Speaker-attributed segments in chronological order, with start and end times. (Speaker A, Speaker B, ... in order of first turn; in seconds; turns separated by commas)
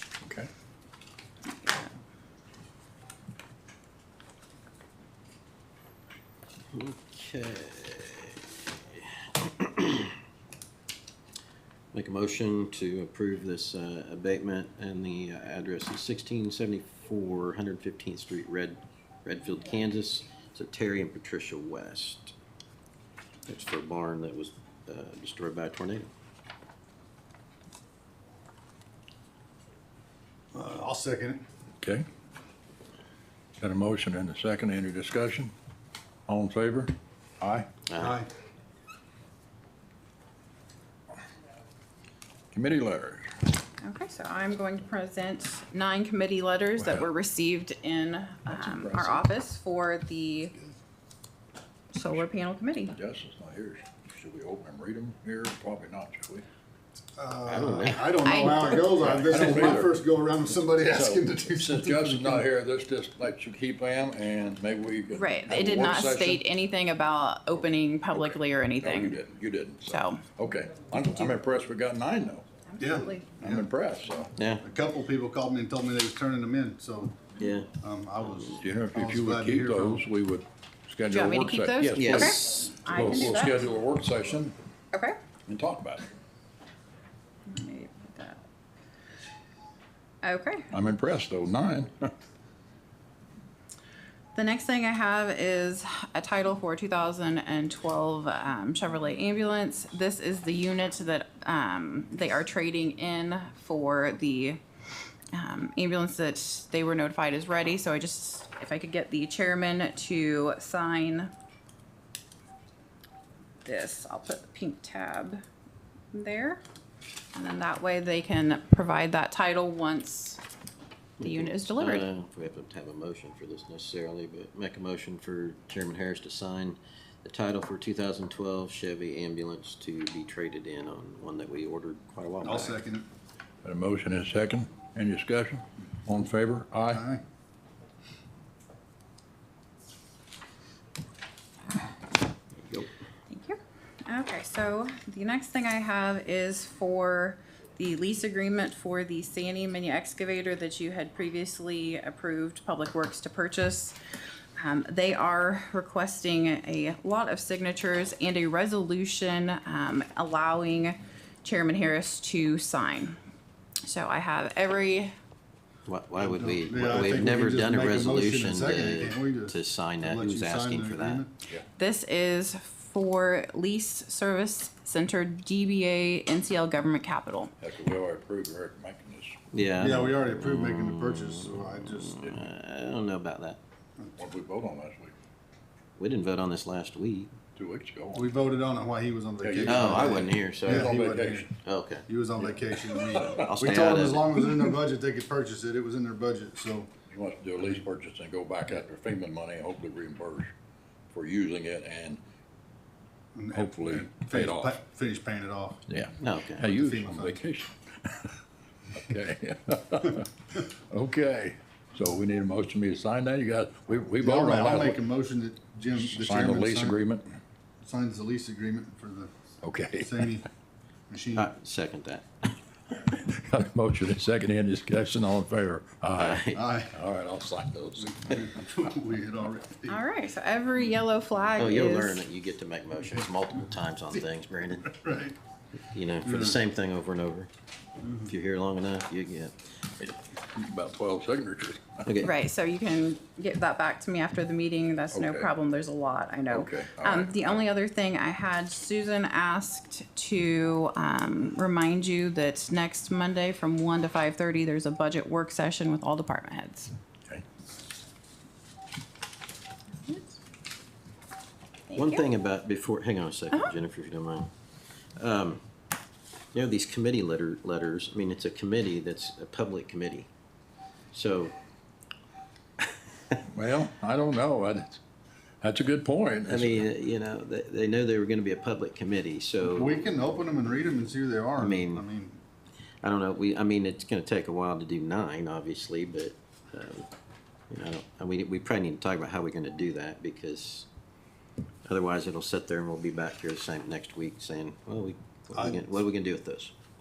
Speaker A: 0.2-0.5, Speaker B: 1.5-1.9, Speaker C: 6.7-10.1, Speaker C: 11.9-22.3, Speaker C: 23.5-26.1, Speaker D: 30.5-31.4, Speaker A: 31.8-32.0, Speaker A: 33.6-35.5, Speaker A: 36.3-37.7, Speaker C: 37.9-38.2, Speaker D: 38.0-38.3, Speaker A: 42.5-43.3, Speaker B: 43.8-50.5, Speaker A: 46.8-47.0, Speaker A: 48.5-49.2, Speaker B: 51.9-52.9, Speaker A: 52.9-56.4, Speaker D: 57.1-62.4, Speaker C: 57.5-58.9, Speaker B: 58.2-58.9, Speaker A: 59.0-60.0, Speaker A: 60.9-66.4, Speaker B: 65.1-69.2, Speaker A: 68.1-72.5, Speaker B: 69.9-70.2, Speaker B: 72.7-73.4, Speaker D: 72.8-73.7, Speaker A: 73.4-74.3, Speaker C: 74.3-74.6, Speaker D: 74.6-77.2, Speaker C: 77.4-77.7, Speaker D: 77.8-80.0, Speaker A: 78.6-84.5, Speaker B: 81.1-83.7, Speaker C: 82.0-82.5, Speaker A: 85.5-86.1, Speaker B: 87.5-88.4, Speaker B: 90.2-90.7, Speaker A: 90.7-92.1, Speaker B: 94.3-104.6, Speaker B: 105.3-111.3, Speaker B: 113.6-115.4, Speaker B: 116.1-116.6, Speaker B: 117.3-120.4, Speaker C: 121.2-132.8, Speaker B: 121.2-122.1, Speaker D: 132.4-133.1, Speaker A: 133.6-137.0, Speaker D: 136.9-137.2, Speaker C: 142.5-142.9, Speaker B: 143.3-154.0, Speaker B: 154.6-163.2, Speaker B: 163.8-165.1, Speaker C: 165.8-171.2, Speaker D: 166.2-171.3, Speaker B: 171.8-177.5, Speaker A: 177.6-179.4, Speaker C: 179.5-183.6, Speaker D: 179.8-182.4, Speaker A: 184.2-185.1, Speaker C: 186.0-187.3, Speaker A: 187.6-188.3, Speaker D: 188.1-191.5, Speaker A: 189.4-191.5, Speaker C: 189.6-190.9, Speaker C: 191.6-192.1, Speaker D: 192.1-196.9, Speaker A: 192.4-193.7, Speaker C: 193.2-194.4, Speaker A: 197.1-200.5, Speaker A: 201.1-202.2, Speaker D: 203.3-205.8, Speaker A: 203.5-204.7, Speaker A: 205.9-208.4, Speaker C: 206.2-206.7, Speaker D: 206.6-207.4, Speaker A: 208.9-210.3, Speaker A: 210.9-215.0, Speaker D: 214.2-217.0, Speaker A: 216.0-217.3, Speaker D: 217.8-219.3, Speaker A: 219.6-220.4, Speaker D: 220.0-220.5, Speaker D: 221.1-221.5, Speaker C: 221.3-222.2, Speaker A: 223.0-228.4, Speaker C: 226.2-226.6, Speaker D: 226.5-226.9, Speaker D: 228.1-230.0, Speaker B: 229.9-232.2, Speaker C: 231.6-234.9, Speaker D: 234.8-235.4, Speaker C: 235.9-237.5, Speaker D: 236.2-236.6, Speaker D: 238.0-238.3, Speaker C: 238.2-239.7, Speaker A: 240.0-242.0, Speaker C: 242.1-242.3, Speaker B: 242.2-256.9, Speaker A: 245.1-245.5, Speaker A: 246.5-247.5, Speaker B: 260.1-260.3, Speaker B: 261.9-262.2, Speaker C: 261.9-264.5, Speaker C: 265.1-265.6, Speaker C: 266.5-270.3, Speaker C: 271.1-271.5, Speaker A: 273.4-275.0, Speaker A: 275.6-276.9, Speaker C: 276.5-280.0, Speaker D: 279.6-282.4, Speaker C: 281.6-282.0, Speaker C: 283.0-287.1, Speaker C: 287.7-290.9, Speaker C: 291.8-296.7, Speaker D: 295.5-295.8